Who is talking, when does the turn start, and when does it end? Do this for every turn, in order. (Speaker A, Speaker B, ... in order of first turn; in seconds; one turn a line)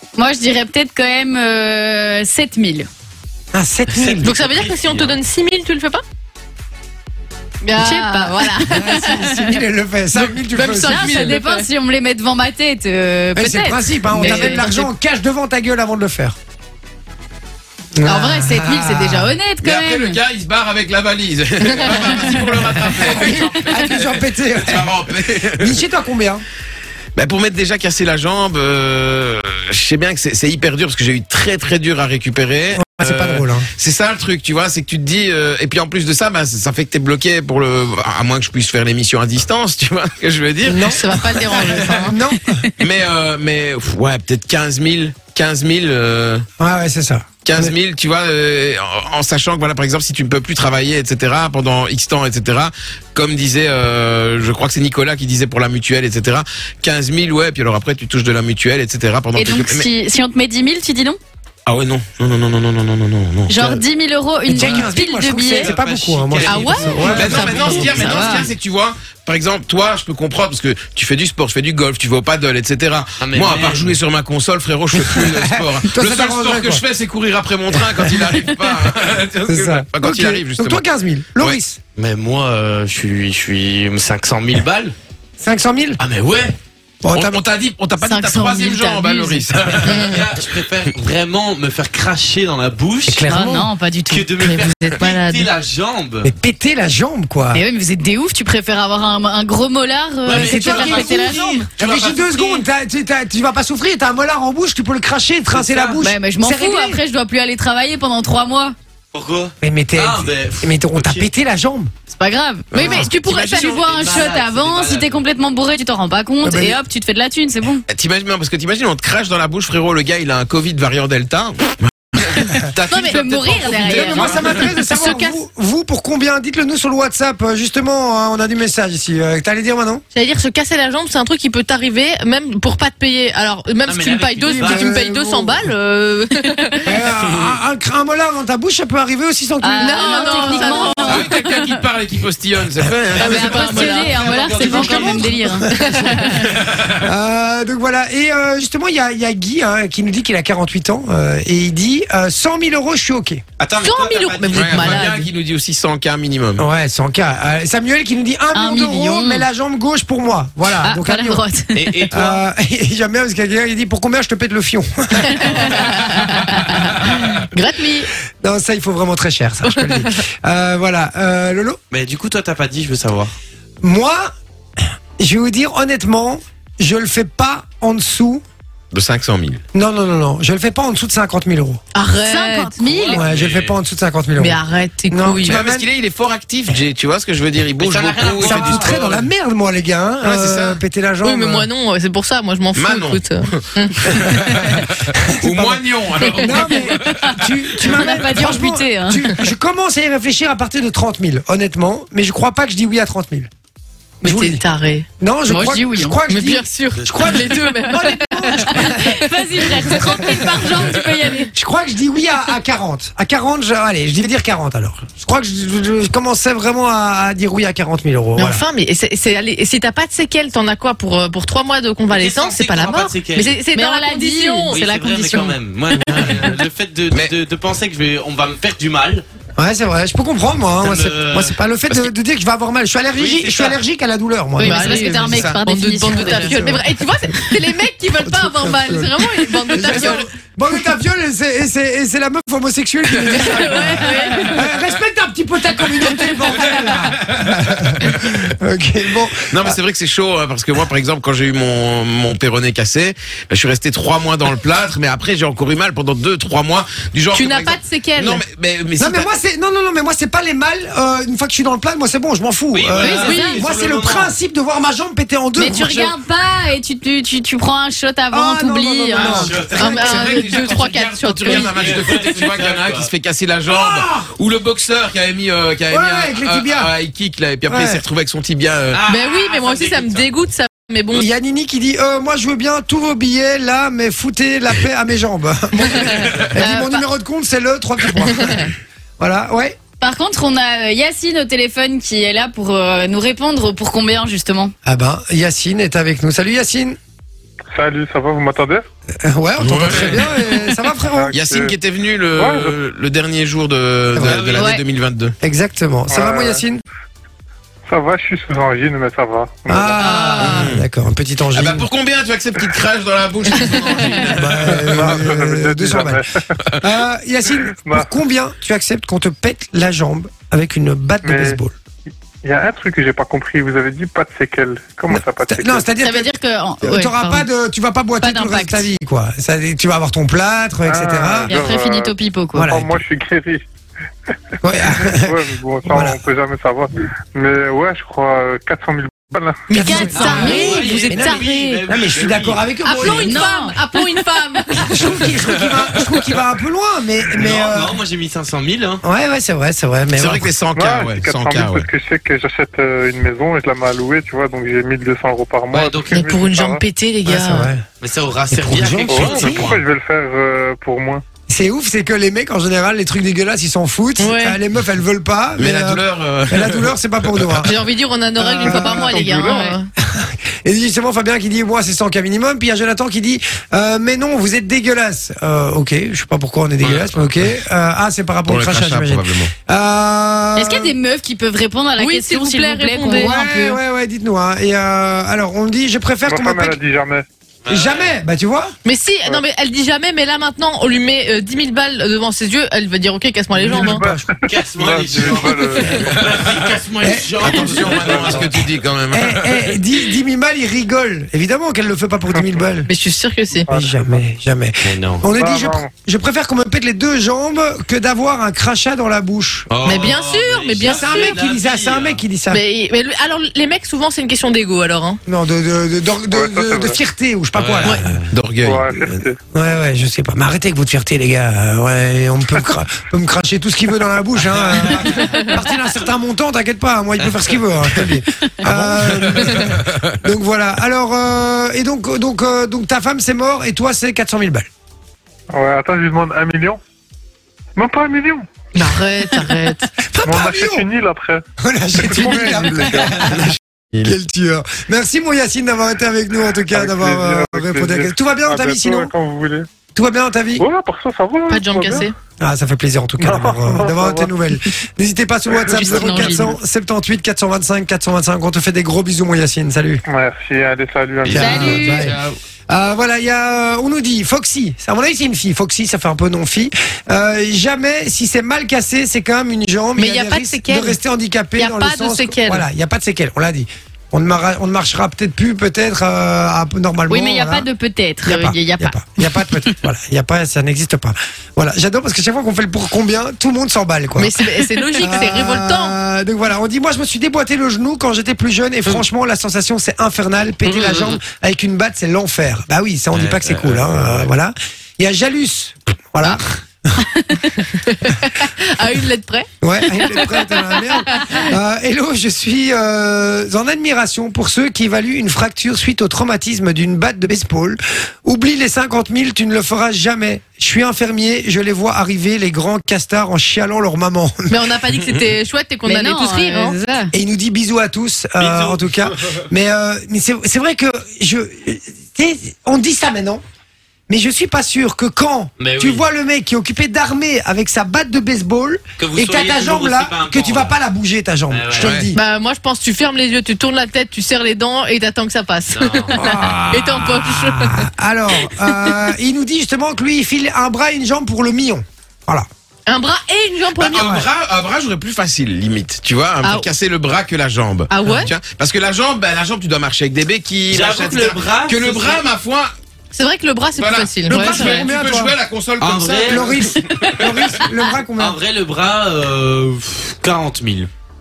Speaker A: 0.1-2.9
Speaker B: 3.5-4.3
Speaker C: 3.9-5.2
Speaker D: 4.2-6.0
Speaker D: 7.6-9.1
Speaker A: 7.7-9.6
Speaker B: 8.6-11.3
Speaker D: 10.1-11.7
Speaker A: 10.7-14.9
Speaker B: 13.3-16.4
Speaker D: 14.1-14.8
Speaker B: 18.0-19.4
Speaker A: 18.0-20.2
Speaker E: 19.6-25.9
Speaker A: 22.0-23.2
Speaker B: 23.0-26.4
Speaker E: 27.1-41.2
Speaker B: 32.7-33.7
Speaker B: 40.6-42.7
Speaker D: 40.9-42.2
Speaker E: 42.8-46.4
Speaker B: 46.6-47.7
Speaker E: 47.4-59.9
Speaker A: 59.4-61.2
Speaker E: 61.6-63.8
Speaker A: 63.5-65.7
Speaker B: 64.5-68.4
Speaker C: 65.5-68.2
Speaker D: 66.4-68.4
Speaker E: 67.0-80.8
Speaker A: 67.7-68.5
Speaker C: 73.2-74.0
Speaker B: 74.9-76.8
Speaker B: 77.7-78.2
Speaker B: 79.5-81.8
Speaker C: 82.0-84.9
Speaker B: 85.4-86.0
Speaker C: 86.0-86.6
Speaker B: 87.0-87.4
Speaker E: 87.1-90.3
Speaker A: 88.0-89.5
Speaker C: 89.8-93.3
Speaker B: 93.0-93.7
Speaker A: 93.3-94.7
Speaker C: 94.1-96.3
Speaker D: 94.4-95.5
Speaker B: 96.2-97.6
Speaker A: 97.5-101.7
Speaker C: 100.2-102.7
Speaker B: 100.3-107.0
Speaker C: 105.5-106.0
Speaker A: 106.0-108.7
Speaker C: 109.1-111.3
Speaker B: 109.6-111.9
Speaker A: 112.1-117.8
Speaker E: 112.7-113.7
Speaker D: 112.7-114.0
Speaker C: 113.5-115.3
Speaker B: 116.4-116.8
Speaker E: 117.9-124.6
Speaker D: 122.9-125.4
Speaker A: 122.9-124.6
Speaker B: 123.9-130.0
Speaker D: 130.1-137.0
Speaker C: 133.8-134.9
Speaker B: 134.5-135.7
Speaker B: 136.8-141.1
Speaker E: 137.2-137.6
Speaker A: 139.6-141.8
Speaker D: 139.8-141.3
Speaker E: 141.0-144.1
Speaker D: 143.2-144.7
Speaker A: 143.2-146.5
Speaker C: 143.6-145.4
Speaker B: 144.5-153.4
Speaker D: 145.7-146.2
Speaker E: 146.4-147.1
Speaker C: 153.6-155.1
Speaker D: 153.8-155.3
Speaker E: 154.5-156.7
Speaker B: 156.6-161.4
Speaker A: 158.5-159.5
Speaker A: 160.6-162.0
Speaker C: 161.7-162.4
Speaker B: 162.1-167.1
Speaker D: 165.2-166.1
Speaker A: 165.8-166.6
Speaker D: 167.1-168.1
Speaker B: 168.4-171.8
Speaker D: 169.7-170.2
Speaker C: 171.9-173.3
Speaker B: 173.8-174.3
Speaker B: 175.2-178.4
Speaker E: 178.9-179.6
Speaker B: 179.7-181.8
Speaker D: 181.9-183.2
Speaker A: 182.2-183.2
Speaker B: 183.1-185.8
Speaker C: 183.3-183.7
Speaker D: 184.4-185.6
Speaker E: 185.4-188.9
Speaker C: 187.8-189.3
Speaker B: 188.4-191.7
Speaker E: 190.2-190.8
Speaker D: 191.2-194.4
Speaker E: 192.7-197.3
Speaker B: 195.2-203.5
Speaker D: 196.2-196.5
Speaker A: 196.8-199.3
Speaker B: 204.2-204.6
Speaker D: 204.2-205.1
Speaker B: 205.2-210.8
Speaker A: 205.5-206.2
Speaker D: 206.3-208.9
Speaker C: 206.9-207.3
Speaker A: 207.3-211.5
Speaker B: 211.5-218.6
Speaker D: 218.3-224.8
Speaker C: 222.1-223.6
Speaker A: 223.7-225.6
Speaker C: 224.7-229.2
Speaker B: 226.0-226.3
Speaker B: 229.6-235.4
Speaker C: 230.8-231.6
Speaker C: 233.1-233.8
Speaker A: 234.6-236.8
Speaker D: 234.6-240.3
Speaker B: 236.2-236.8
Speaker B: 238.1-249.8
Speaker E: 243.1-244.0
Speaker D: 243.2-244.7
Speaker A: 243.6-244.6
Speaker E: 246.1-248.5
Speaker E: 249.4-259.3
Speaker D: 257.3-258.4
Speaker B: 259.0-266.1
Speaker C: 262.7-264.3
Speaker A: 263.0-263.6
Speaker D: 263.2-263.6
Speaker A: 265.6-270.8
Speaker B: 268.3-269.9
Speaker C: 269.1-270.3
Speaker D: 269.7-272.4
Speaker E: 270.0-279.0
Speaker C: 271.5-273.1
Speaker B: 273.7-274.2
Speaker B: 275.9-276.9
Speaker B: 277.7-278.0
Speaker C: 278.9-280.3
Speaker D: 279.1-281.2
Speaker B: 281.1-289.8
Speaker C: 286.2-286.6
Speaker A: 286.6-287.0
Speaker A: 290.0-294.7
Speaker B: 294.8-297.0
Speaker F: 297.7-298.9
Speaker B: 299.2-301.3
Speaker E: 299.6-300.7
Speaker F: 301.0-301.7
Speaker E: 301.3-305.3
Speaker F: 302.4-302.8
Speaker B: 304.1-304.7
Speaker A: 304.5-304.8
Speaker B: 305.4-306.8
Speaker F: 306.1-306.6
Speaker F: 307.9-310.2
Speaker B: 309.7-311.9
Speaker A: 310.0-310.6
Speaker E: 310.4-310.9
Speaker E: 311.5-315.2
Speaker B: 314.3-316.2
Speaker F: 314.7-316.5
Speaker B: 316.8-321.7
Speaker F: 317.6-318.2
Speaker F: 321.2-321.6
Speaker F: 322.4-325.9
Speaker B: 325.1-326.3
Speaker A: 326.0-327.5
Speaker B: 326.8-331.5
Speaker A: 328.2-328.9
Speaker F: 330.8-333.6
Speaker A: 331.5-332.7
Speaker B: 332.5-333.0
Speaker B: 334.6-336.2
Speaker F: 334.7-339.8
Speaker D: 339.7-341.9
Speaker B: 339.7-343.5
Speaker A: 339.7-340.7
Speaker C: 340.1-343.2
Speaker D: 342.8-345.1
Speaker A: 343.1-344.2
Speaker B: 344.8-348.0
Speaker C: 347.3-349.0
Speaker B: 349.0-350.5
Speaker E: 350.1-351.9
Speaker F: 350.7-356.8
Speaker C: 355.7-356.3
Speaker D: 356.1-357.7
Speaker B: 357.2-357.8
Speaker C: 358.0-359.8
Speaker B: 358.5-359.8
Speaker F: 359.1-361.2
Speaker B: 361.5-367.7
Speaker D: 364.2-364.6
Speaker E: 365.6-367.7
Speaker D: 367.6-369.9
Speaker F: 368.4-369.7
Speaker B: 368.6-369.1
Speaker B: 370.0-380.9
Speaker E: 378.4-379.5
Speaker A: 380.6-383.8
Speaker D: 382.0-383.3
Speaker B: 383.1-386.8
Speaker F: 386.2-387.2
Speaker C: 387.6-388.2
Speaker B: 387.7-388.7
Speaker D: 388.8-394.0
Speaker B: 393.5-394.3
Speaker F: 393.7-396.1
Speaker C: 394.4-398.6
Speaker E: 396.2-396.6
Speaker B: 397.0-398.5
Speaker E: 397.4-400.0
Speaker F: 397.8-398.2
Speaker B: 399.1-402.9
Speaker F: 402.3-402.6
Speaker D: 402.9-403.7
Speaker F: 403.6-404.2
Speaker B: 403.7-409.7
Speaker C: 404.8-405.3
Speaker F: 405.2-405.9
Speaker C: 409.7-412.2
Speaker D: 409.8-411.4
Speaker B: 410.8-412.6
Speaker D: 412.5-415.2
Speaker B: 415.2-418.2
Speaker F: 416.3-417.0
Speaker C: 417.6-418.3
Speaker E: 418.3-418.9
Speaker F: 418.6-419.4
Speaker B: 419.5-434.7
Speaker D: 425.0-425.5
Speaker E: 428.6-430.2
Speaker F: 435.5-436.8
Speaker F: 437.8-438.7
Speaker D: 438.7-439.9
Speaker B: 440.1-440.9
Speaker F: 440.2-443.3
Speaker B: 441.6-449.1
Speaker F: 446.7-449.7
Speaker B: 449.9-450.6
Speaker F: 450.5-452.1
Speaker D: 451.5-452.1
Speaker B: 452.4-460.0
Speaker F: 453.2-454.4
Speaker F: 455.5-456.4
Speaker D: 455.7-456.6
Speaker F: 460.1-461.8
Speaker B: 461.3-477.7
Speaker A: 461.3-462.1
Speaker E: 461.4-462.3
Speaker D: 469.9-471.0
Speaker D: 471.6-472.7
Speaker A: 477.1-479.6
Speaker B: 478.2-484.3
Speaker D: 484.1-485.9
Speaker B: 485.0-497.0
Speaker C: 490.8-491.1
Speaker C: 493.1-494.3
Speaker A: 497.0-497.4
Speaker D: 497.5-501.4
Speaker B: 499.6-514.5
Speaker D: 514.5-516.8
Speaker A: 515.8-517.1
Speaker B: 517.1-523.4
Speaker C: 518.4-518.8
Speaker B: 524.1-532.2
Speaker C: 525.6-526.0
Speaker C: 529.0-530.8
Speaker C: 531.5-531.9
Speaker E: 531.8-532.1
Speaker D: 532.1-537.9
Speaker C: 535.7-536.2
Speaker B: 536.1-542.5
Speaker D: 538.4-539.1
Speaker D: 542.9-544.3
Speaker E: 543.8-552.7
Speaker D: 546.4-546.7
Speaker D: 547.9-548.3
Speaker C: 550.7-552.2
Speaker D: 553.1-554.9
Speaker E: 553.7-556.7
Speaker B: 554.3-555.3
Speaker C: 555.8-560.9
Speaker B: 556.3-558.4